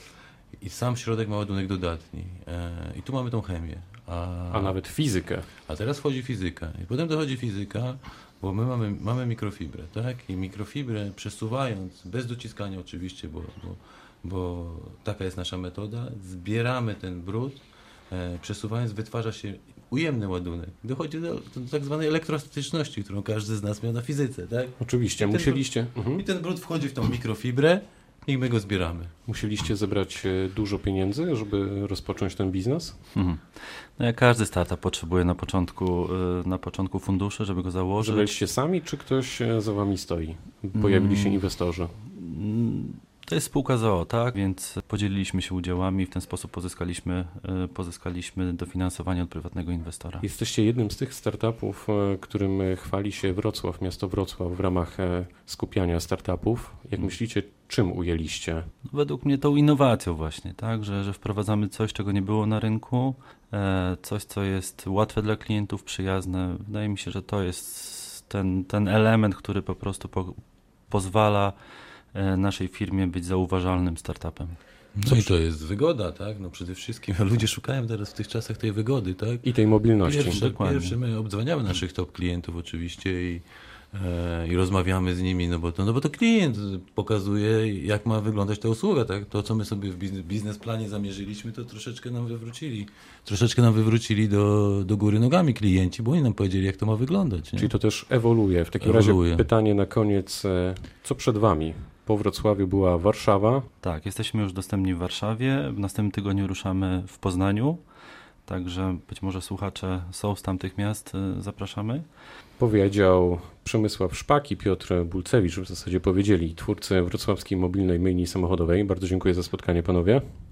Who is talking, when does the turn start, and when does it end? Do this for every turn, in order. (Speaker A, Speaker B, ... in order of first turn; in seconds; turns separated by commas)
Speaker A: 0.6-4.8, Speaker B: 4.5-5.5, Speaker A: 5.7-29.1, Speaker B: 24.8-26.2, Speaker B: 29.3-33.0, Speaker C: 33.1-38.4, Speaker B: 38.0-41.9, Speaker C: 40.7-41.5, Speaker C: 42.0-50.2, Speaker B: 50.2-58.7, Speaker C: 58.9-71.5, Speaker C: 72.1-75.2, Speaker A: 75.0-79.5, Speaker B: 79.4-80.4, Speaker A: 80.0-97.7, Speaker C: 80.3-81.0, Speaker B: 97.6-103.7, Speaker A: 98.8-99.5, Speaker C: 103.8-107.8, Speaker C: 108.5-112.0, Speaker B: 112.6-120.2